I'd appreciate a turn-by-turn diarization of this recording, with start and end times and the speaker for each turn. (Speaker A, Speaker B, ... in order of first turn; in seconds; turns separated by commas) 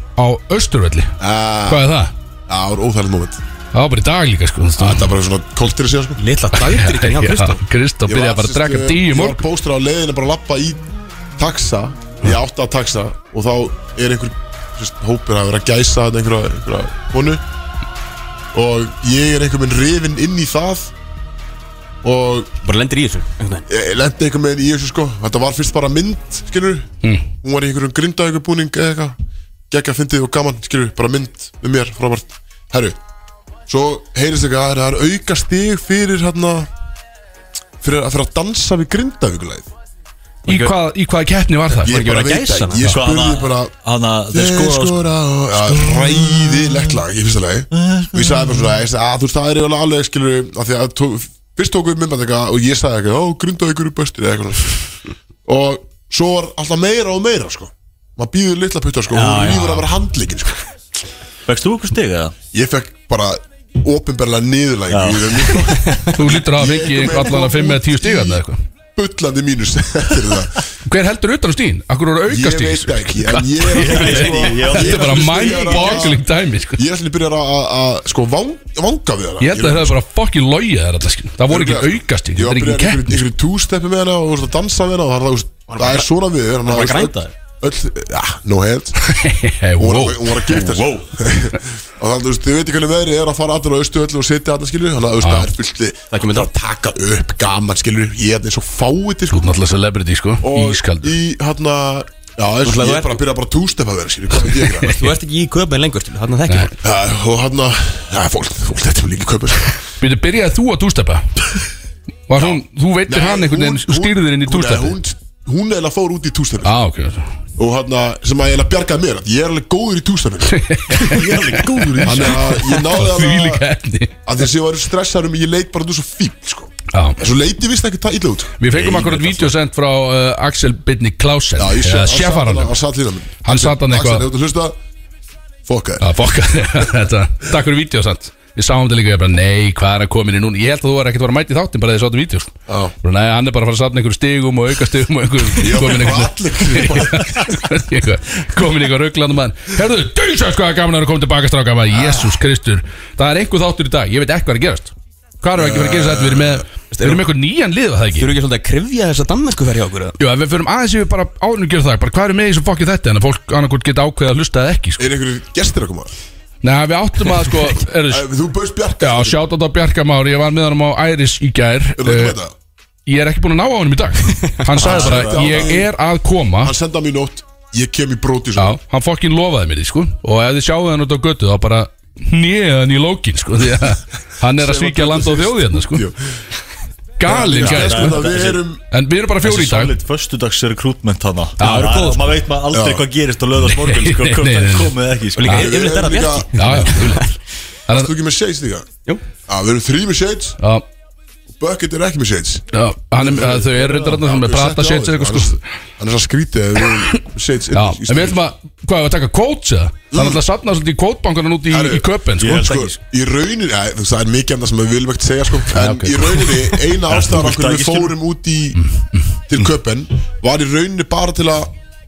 Speaker A: 0.2-1.2, Speaker B: 1.2-1.9, Speaker A: 1.7-2.1, Speaker B: 2.5-3.4, Speaker A: 3.7-5.1, Speaker B: 4.8-6.2, Speaker C: 6.2-7.6, Speaker A: 6.5-9.4, Speaker B: 8.0-10.8, Speaker B: 11.4-17.4, Speaker B: 18.5-20.9, Speaker B: 22.0-22.5, Speaker C: 22.6-23.6, Speaker B: 23.7-29.2, Speaker B: 29.7-33.0, Speaker B: 33.7-36.7, Speaker B: 37.8-39.7, Speaker C: 40.5-40.7, Speaker A: 40.5-42.0, Speaker C: 41.8-42.9, Speaker B: 41.8-43.8, Speaker D: 42.2-47.0, Speaker B: 44.3-54.9, Speaker D: 47.7-48.8, Speaker B: 55.5-60.7, Speaker D: 59.1-59.9, Speaker D: 61.5-62.3, Speaker B: 62.5-68.4, Speaker D: 64.9-65.8, Speaker A: 66.1-68.6, Speaker B: 69.0-70.6, Speaker A: 70.9-76.8, Speaker B: 72.3-80.0, Speaker D: 73.7-76.1, Speaker A: 79.4-83.2, Speaker B: 81.5-89.0, Speaker C: 85.7-86.1, Speaker C: 86.6-87.3, Speaker A: 89.0-90.5, Speaker B: 89.8-99.6, Speaker C: 90.6-90.9, Speaker A: 95.2-95.5, Speaker C: 96.1-96.5, Speaker A: 99.3-101.2, Speaker B: 100.4-105.0, Speaker C: 102.6-103.2, Speaker C: 104.8-106.8, Speaker B: 106.8-109.8, Speaker A: 110.0-111.2, Speaker A: 112.3-115.0, Speaker B: 112.3-116.7, Speaker A: 116.6-117.3, Speaker B: 117.6-120.6, Speaker A: 120.5-124.2, Speaker C: 121.1-122.1, Speaker D: 121.3-122.0, Speaker B: 122.0-123.6, Speaker B: 124.2-128.6, Speaker A: 126.9-127.2, Speaker A: 128.6-132.8, Speaker D: 128.7-129.6, Speaker B: 131.6-134.8, Speaker A: 133.4-134.3, Speaker B: 135.7-136.1, Speaker A: 136.0-158.3, Speaker B: 142.7-142.9, Speaker B: 145.5-147.5, Speaker B: 151.9-152.3, Speaker B: 155.6-156.6, Speaker C: 156.9-157.2, Speaker C: 158.2-160.1, Speaker A: 160.2-165.1, Speaker B: 165.0-166.1, Speaker A: 166.6-168.3, Speaker B: 168.1-169.4, Speaker A: 169.0-172.4, Speaker B: 171.9-172.5, Speaker A: 173.1-176.7, Speaker B: 174.8-175.9, Speaker C: 174.8-175.1, Speaker D: 174.8-175.7, Speaker B: 176.6-178.8, Speaker A: 178.6-186.1, Speaker B: 184.4-186.2, Speaker A: 187.2-188.2, Speaker B: 187.2-188.8, Speaker D: 187.3-188.6, Speaker A: 188.9-189.9, Speaker D: 189.4-195.6, Speaker A: 191.6-192.0, Speaker C: 191.6-192.3, Speaker B: 192.7-193.1, Speaker A: 193.6-195.7, Speaker C: 195.3-197.4, Speaker B: 195.4-197.2, Speaker A: 196.6-197.3, Speaker B: 197.9-198.9, Speaker B: 199.5-200.6, Speaker A: 200.6-200.8, Speaker B: 201.6-208.4, Speaker A: 202.7-205.6, Speaker A: 207.7-212.7, Speaker B: 210.1-210.4, Speaker B: 211.7-218.8, Speaker D: 212.4-212.9, Speaker A: 215.7-216.8, Speaker D: 217.1-218.2, Speaker B: 219.5-221.7